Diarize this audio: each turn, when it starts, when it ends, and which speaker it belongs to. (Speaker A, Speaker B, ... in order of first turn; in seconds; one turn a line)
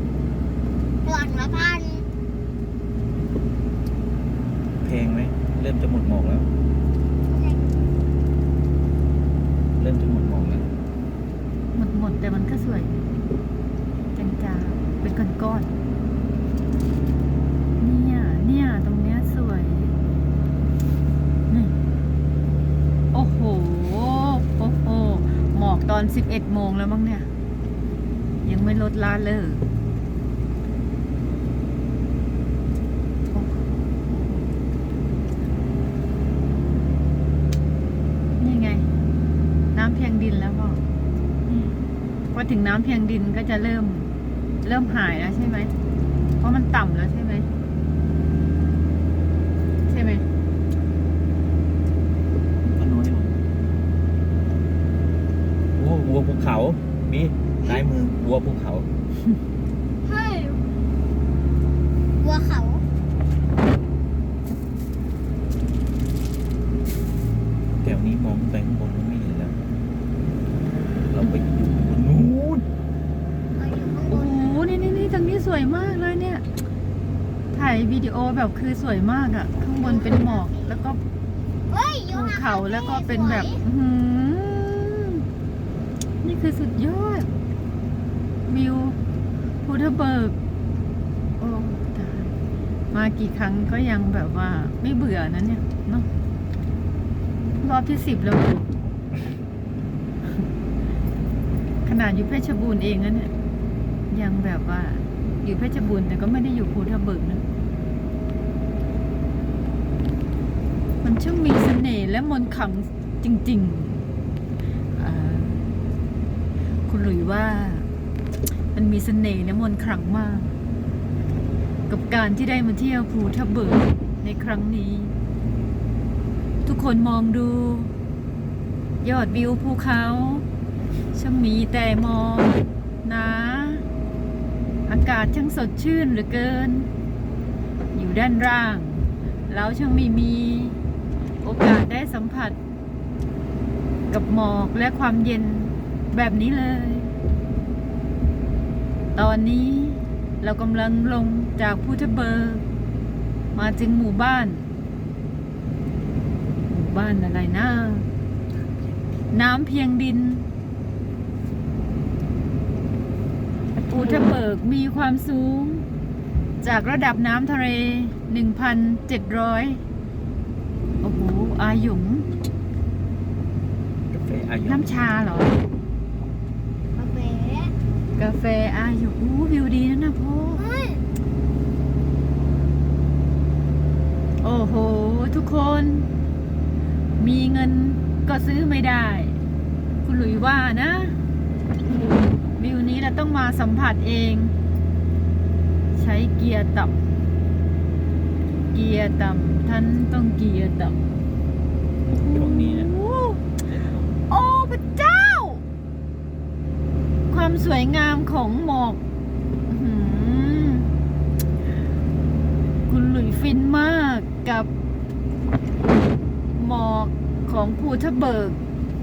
Speaker A: 1.0-2.0
Speaker B: 4.8-6.5
Speaker A: 7.3-7.8
Speaker B: 9.8-10.7
Speaker C: 11.7-12.9
Speaker C: 14.1-15.7
Speaker C: 17.8-19.9
Speaker C: 21.5-21.7
Speaker C: 23.1-27.3
Speaker C: 28.4-29.6
Speaker C: 38.4-38.9
Speaker C: 39.7-40.8
Speaker B: 41.5-41.8
Speaker C: 42.3-44.1
Speaker C: 44.6-45.7
Speaker C: 46.4-47.5
Speaker C: 49.9-50.2
Speaker B: 52.6-53.4
Speaker B: 55.8-58.9
Speaker C: 60.0-60.6
Speaker A: 62.2-62.8
Speaker B: 67.8-69.5
Speaker B: 71.1-72.7
Speaker A: 73.5-74.6
Speaker C: 74.1-76.4
Speaker C: 77.5-81.0
Speaker A: 79.8-80.9
Speaker A: 81.7-83.6
Speaker C: 82.1-85.2
Speaker C: 86.2-87.3
Speaker C: 88.5-89.0
Speaker C: 89.6-90.3
Speaker C: 91.4-92.3
Speaker C: 92.9-96.1
Speaker C: 97.6-98.7
Speaker C: 101.8-103.3
Speaker C: 104.1-107.4
Speaker C: 111.0-114.0
Speaker C: 114.9-115.6
Speaker C: 116.9-117.9
Speaker C: 118.7-120.5
Speaker C: 121.9-125.1
Speaker C: 126.6-127.9
Speaker C: 129.0-130.4
Speaker C: 131.1-133.8
Speaker C: 134.9-136.9
Speaker C: 137.9-140.8
Speaker C: 141.4-142.6
Speaker C: 144.1-147.1
Speaker C: 149.2-152.6
Speaker C: 153.5-154.7
Speaker C: 156.6-158.1
Speaker C: 159.3-160.5
Speaker C: 163.8-165.8
Speaker C: 166.6-169.8
Speaker C: 171.0-172.3
Speaker B: 174.1-175.0
Speaker C: 174.7-175.6
Speaker A: 177.0-177.7
Speaker C: 178.2-180.6
Speaker A: 180.5-181.0
Speaker C: 184.4-186.1
Speaker C: 187.2-189.4
Speaker C: 190.0-191.2
Speaker C: 192.4-194.5
Speaker C: 195.9-196.9
Speaker C: 198.7-201.0
Speaker C: 202.1-203.4
Speaker B: 202.1-202.9
Speaker B: 203.6-204.2
Speaker C: 204.3-205.6
Speaker C: 207.3-209.0
Speaker C: 209.7-210.9
Speaker C: 212.9-214.7
Speaker C: 216.6-218.6